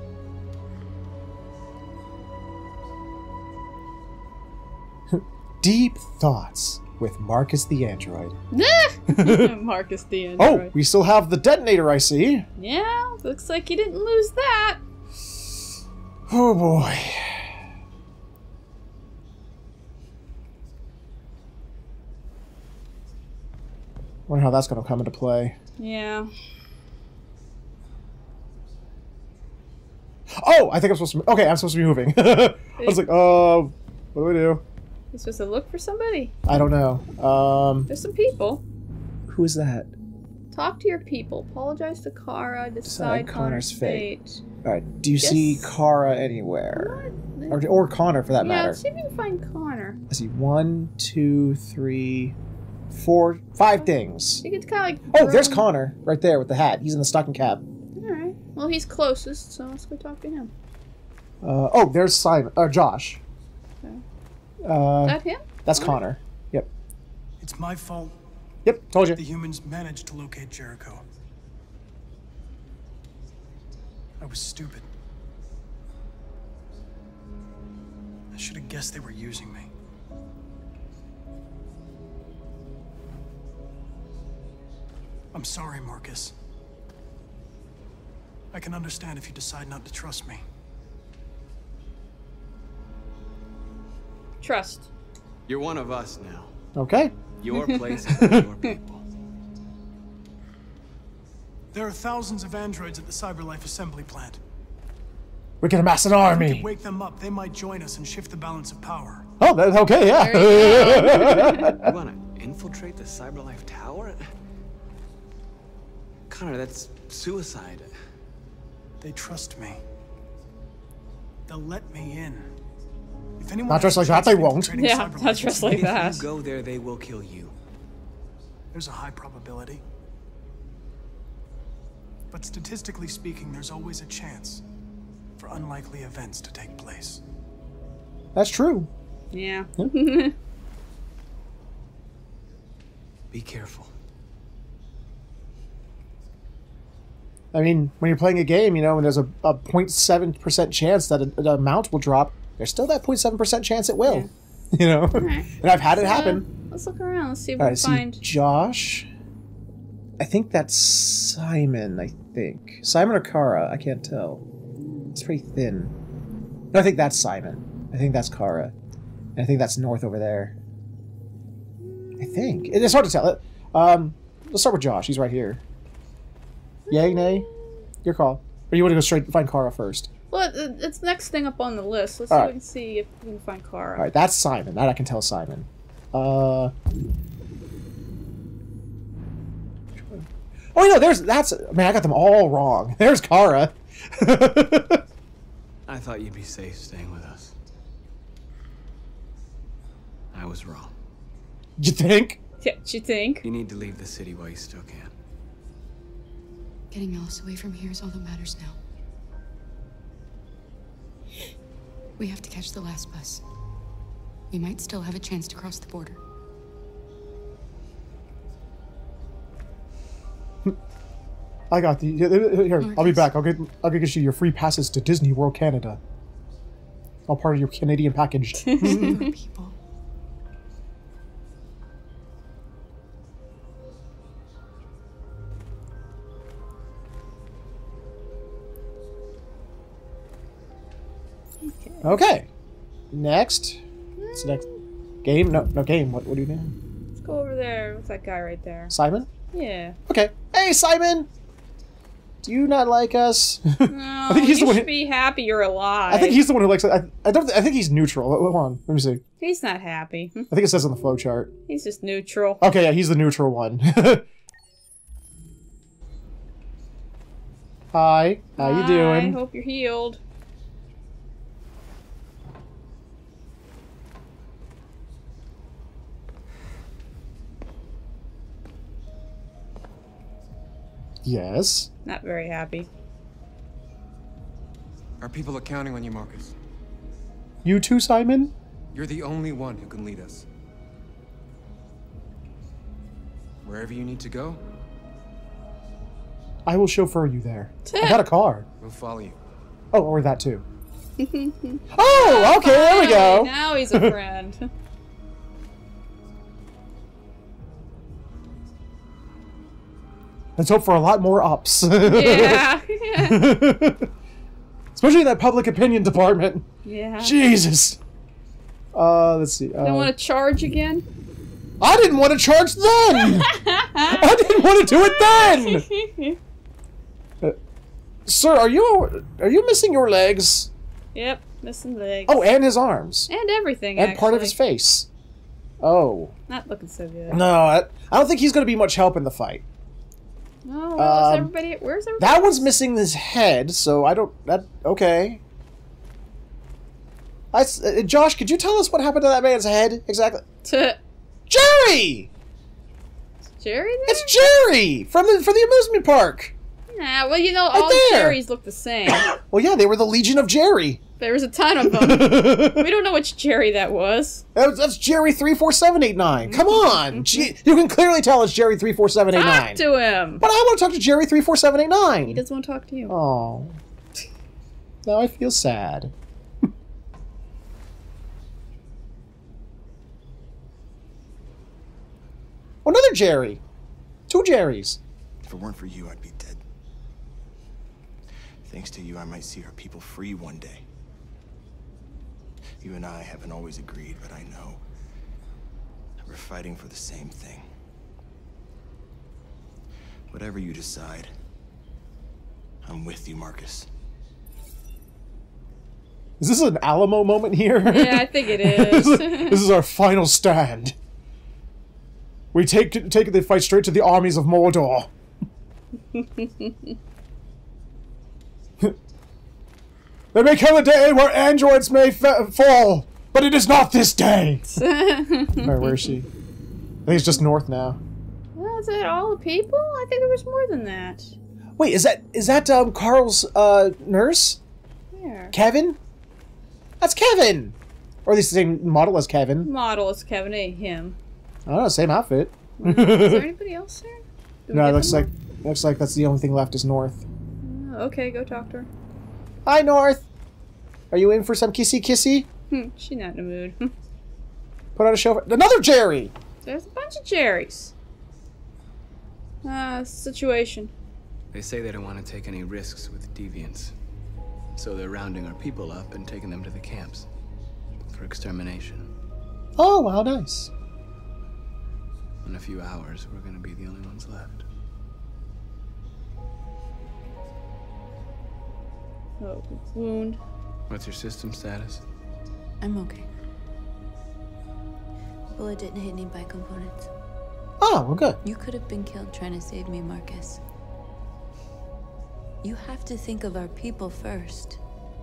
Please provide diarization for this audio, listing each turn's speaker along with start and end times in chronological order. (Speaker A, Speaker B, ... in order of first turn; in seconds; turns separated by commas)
Speaker A: 5.1-8.3, Speaker B: 8.5-10.7, Speaker A: 9.1-9.5, Speaker A: 10.4-12.4, Speaker B: 12.6-14.8, Speaker A: 16.3-17.4, Speaker A: 24.3-25.5, Speaker B: 25.8-26.3, Speaker A: 30.3-34.6, Speaker B: 32.8-33.0, Speaker B: 35.1-36.3, Speaker A: 36.4-37.9, Speaker B: 37.9-38.6, Speaker A: 39.3-39.9, Speaker B: 40.5-44.4, Speaker A: 42.9-44.1, Speaker A: 44.6-47.0, Speaker B: 45.2-45.7, Speaker B: 46.8-47.6, Speaker A: 47.5-48.8, Speaker B: 48.4-50.0, Speaker A: 50.1-52.3, Speaker A: 52.9-54.4, Speaker B: 54.4-55.7, Speaker A: 55.1-57.6, Speaker B: 57.9-60.5, Speaker A: 61.4-63.2, Speaker A: 64.6-66.7, Speaker B: 65.0-66.0, Speaker C: 67.4-68.2, Speaker A: 68.6-69.2, Speaker C: 69.1-71.0, Speaker C: 74.2-74.9, Speaker C: 78.3-79.7, Speaker C: 85.3-86.3, Speaker C: 88.5-90.4, Speaker B: 94.4-94.9, Speaker D: 95.5-96.5, Speaker A: 96.7-97.1, Speaker D: 97.4-99.0, Speaker A: 98.1-98.5, Speaker C: 101.7-104.4, Speaker A: 105.6-106.7, Speaker C: 106.3-109.3, Speaker A: 109.4-111.9, Speaker B: 110.0-111.7, Speaker D: 111.8-114.2, Speaker D: 116.3-117.9, Speaker C: 119.0-119.8, Speaker C: 121.5-122.5, Speaker C: 123.4-125.9, Speaker A: 123.7-124.8, Speaker B: 124.7-126.2, Speaker D: 125.5-127.5, Speaker C: 128.7-129.8, Speaker C: 132.3-134.6, Speaker C: 135.4-137.2, Speaker A: 138.3-138.9, Speaker B: 139.3-140.3, Speaker D: 143.3-143.9, Speaker A: 147.5-156.5, Speaker B: 154.0-154.3, Speaker B: 155.1-158.2, Speaker A: 157.6-159.1, Speaker A: 160.2-164.4, Speaker B: 164.8-165.1, Speaker A: 165.1-165.9, Speaker A: 166.7-168.7, Speaker A: 169.3-170.5, Speaker B: 172.0-172.7, Speaker A: 172.2-175.6, Speaker B: 176.9-177.5, Speaker A: 176.9-177.5, Speaker A: 178.0-180.1, Speaker B: 180.3-184.1, Speaker A: 183.9-186.7, Speaker A: 190.7-195.0, Speaker D: 195.9-197.5, Speaker D: 200.3-200.9, Speaker A: 201.8-202.4, Speaker B: 202.6-203.4, Speaker D: 203.4-205.1, Speaker E: 206.9-208.8, Speaker E: 212.2-213.4, Speaker E: 214.5-216.2, Speaker A: 221.7-226.0, Speaker E: 222.8-223.3, Speaker A: 227.3-229.2, Speaker B: 228.6-229.3, Speaker E: 228.8-229.8, Speaker B: 241.6-242.2, Speaker A: 242.0-242.5, Speaker A: 243.1-243.8, Speaker B: 244.2-244.8, Speaker A: 244.3-244.6, Speaker A: 245.2-246.8, Speaker B: 247.2-248.9, Speaker A: 248.9-249.3, Speaker B: 249.5-250.0, Speaker A: 250.1-251.3, Speaker A: 252.4-254.9, Speaker B: 253.9-256.4, Speaker A: 256.1-259.2, Speaker B: 259.4-260.5, Speaker A: 260.5-261.5, Speaker B: 261.7-262.6, Speaker A: 262.6-264.2, Speaker A: 267.9-269.4, Speaker B: 268.6-270.2, Speaker A: 281.2-281.9, Speaker B: 282.0-282.9, Speaker F: 285.2-286.5, Speaker A: 287.6-288.5, Speaker F: 288.9-290.4, Speaker F: 293.6-294.6, Speaker A: 296.6-298.7, Speaker B: 297.9-298.2, Speaker F: 298.8-299.4, Speaker A: 299.9-300.6, Speaker B: 301.2-304.7, Speaker A: 301.9-304.2, Speaker A: 310.6-314.1, Speaker B: 312.1-313.4, Speaker A: 314.9-316.6, Speaker B: 316.8-317.4, Speaker A: 317.2-318.0, Speaker A: 318.9-320.1, Speaker B: 319.8-321.0, Speaker A: 321.8-323.5, Speaker B: 323.2-326.4, Speaker A: 324.0-325.8, Speaker A: 328.2-330.7, Speaker B: 331.1-332.4, Speaker A: 332.3-333.3, Speaker B: 333.3-334.6, Speaker A: 333.9-335.1, Speaker A: 335.8-336.3, Speaker B: 336.5-337.4, Speaker A: 337.3-339.6, Speaker B: 340.6-342.7, Speaker A: 341.0-341.5, Speaker A: 342.2-345.4, Speaker A: 347.5-350.4, Speaker B: 350.6-351.0, Speaker A: 351.5-352.3, Speaker B: 353.6-354.5, Speaker A: 354.1-356.5, Speaker B: 356.9-359.3, Speaker A: 357.7-358.4, Speaker A: 359.1-361.0, Speaker B: 361.2-364.4, Speaker A: 361.8-362.9, Speaker A: 364.5-369.8, Speaker B: 366.5-367.5, Speaker B: 369.3-370.4, Speaker A: 370.4-372.4, Speaker B: 372.3-373.1, Speaker A: 373.1-373.8, Speaker A: 375.0-376.1, Speaker A: 382.8-383.6, Speaker A: 384.3-385.0, Speaker G: 385.4-386.6, Speaker G: 388.6-390.8, Speaker G: 392.8-394.8, Speaker G: 396.2-397.7, Speaker G: 400.3-401.3, Speaker G: 402.8-403.9, Speaker A: 406.4-410.9, Speaker B: 407.9-409.6, Speaker A: 412.5-415.1, Speaker B: 416.1-416.9, Speaker A: 420.3-424.8, Speaker B: 424.7-426.2, Speaker A: 425.6-426.2, Speaker A: 427.0-428.0, Speaker B: 428.6-431.3, Speaker A: 431.8-434.6, Speaker B: 435.1-435.5, Speaker A: 435.5-436.0, Speaker A: 437.0-439.7, Speaker B: 439.6-441.2, Speaker A: 441.6-443.5, Speaker B: 442.8-445.3, Speaker A: 444.7-447.2, Speaker B: 447.6-448.9, Speaker A: 449.6-450.2, Speaker A: 451.1-452.5, Speaker B: 452.7-453.9, Speaker A: 454.9-456.3, Speaker B: 456.6-457.9, Speaker B: 459.6-460.9, Speaker D: 461.5-463.9, Speaker D: 464.8-467.3, Speaker D: 468.1-469.1, Speaker A: 469.8-470.7, Speaker D: 472.4-474.6, Speaker B: 479.4-480.4, Speaker D: 480.9-482.0, Speaker H: 482.8-483.3, Speaker H: 485.5-487.1, Speaker A: 487.8-488.4, Speaker H: 488.4-490.6, Speaker H: 492.6-494.8